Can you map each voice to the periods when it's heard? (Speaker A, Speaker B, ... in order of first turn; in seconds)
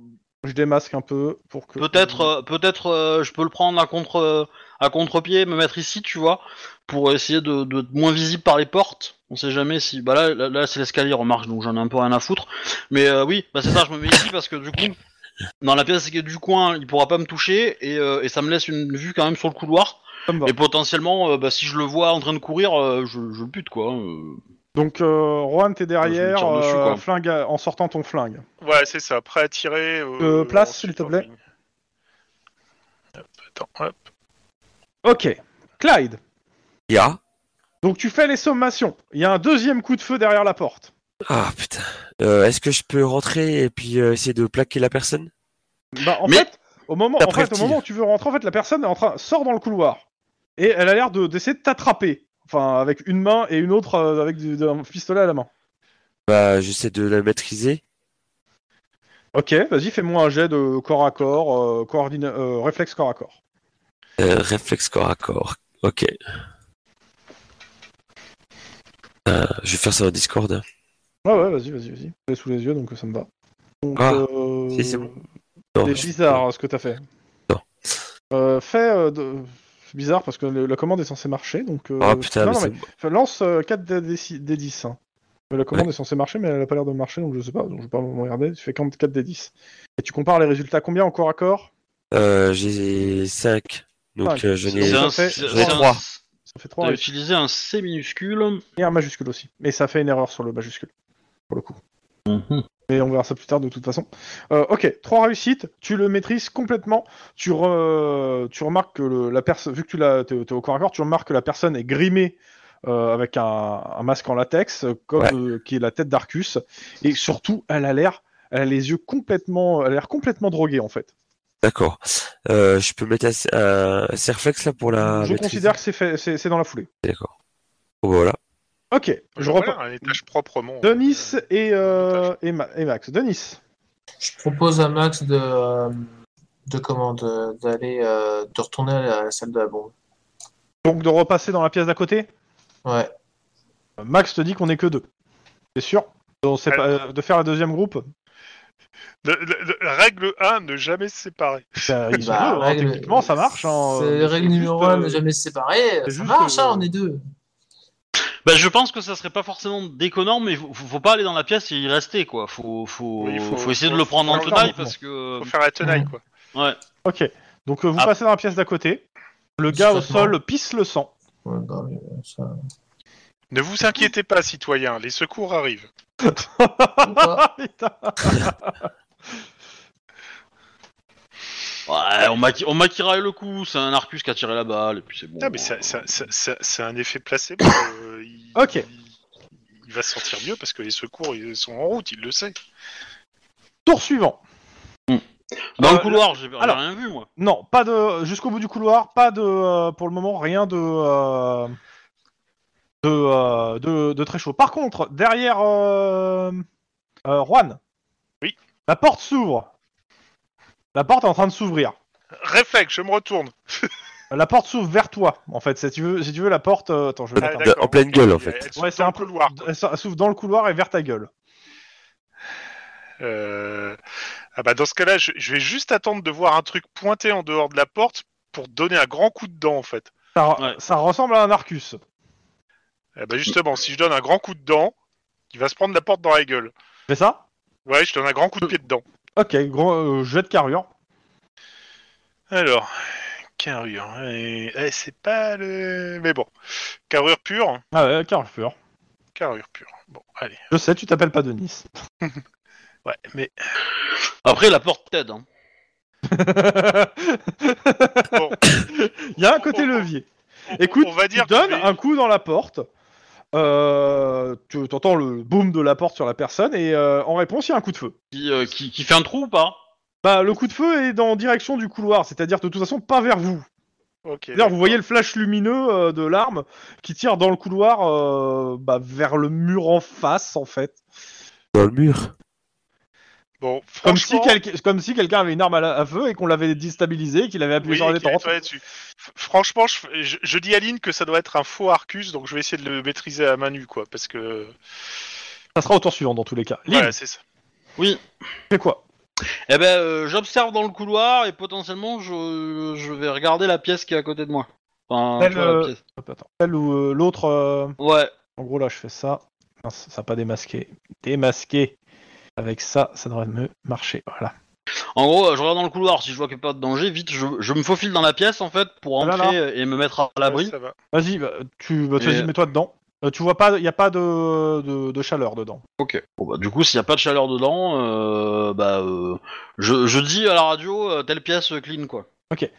Speaker A: 0.4-2.3, 20.3-20.5, 24.7-28.4, 30.2-31.2, 35.0-36.2, 37.8-40.9, 45.9-50.0, 50.6-55.5, 59.3-63.3, 71.2-73.3, 73.8-75.2, 75.8-77.0, 78.3-85.0, 85.5-91.7, 94.2-95.9, 96.5-97.0, 98.8-100.9, 101.5-101.8, 102.9-121.1, 125.1-126.9, 128.9-130.1, 130.8-133.6, 140.8-142.3, 144.0-145.0, 145.7-148.1, 151.8-155.2, 156.1-156.9, 164.3-164.9, 167.0-169.0, 169.6-171.1, 176.2-178.8, 188.5-188.8, 193.8-194.4, 195.8-196.8, 197.4-201.8, 203.0-206.6, 207.2-207.8, 208.8-209.7, 210.9-211.9, 214.3-217.7, 218.8-221.3, 230.3-232.0, 237.1-237.4, 239.4-240.9, 247.9-248.7, 250.7-251.9, 256.3-262.9, 263.5-268.1, 270.2-273.6, 274.5-281.0, 284.0-288.6, 295.7-297.1, 298.7-299.0, 305.4-307.9, 308.6-311.9, 312.6-314.5, 319.2-319.6, 321.1-325.8
Speaker B: 1.8-14.9, 15.6-24.4, 26.0-27.0, 94.8-96.2, 96.8-98.6, 102.3-102.6, 158.4-165.5, 181.9-186.0, 195.8-197.3, 254.4-255.4, 268.3-269.8, 299.7-306.0, 308.0-308.3, 315.1-320.7, 322.2-322.5, 326.0-332.3
Speaker C: 28.6-31.4, 33.2-34.0, 129.4-132.3, 149.2-151.9, 163.2-164.8, 165.4-166.2, 173.5-175.9, 185.4-189.0, 189.8-192.6, 212.4-213.5, 217.4-219.7, 223.2-224.0, 224.6-230.1, 233.2-234.9, 235.5-236.7, 237.8-239.0, 242.5-242.9, 243.6-246.5, 247.1-247.8, 249.3-250.6, 253.0-253.5, 258.3-258.6, 259.6-260.1, 260.7-261.9, 274.2-275.0, 283.6-284.6, 287.8-294.8, 296.9-297.4, 320.4-320.9
Speaker D: 36.9-37.2, 41.2-45.3, 47.2-47.8, 56.3-57.8, 64.2-66.1, 69.2-70.6, 74.0-75.1, 75.8-76.4, 82.0-82.8, 92.1-96.0, 121.6-125.8, 127.0-127.3, 128.0-128.4, 217.4-218.7, 281.7-282.3
Speaker E: 134.2-136.0, 136.7-139.9, 142.8-143.1, 152.2-153.3, 153.8-157.2, 165.8-166.1, 169.7-170.3, 171.4-172.6, 177.0-177.4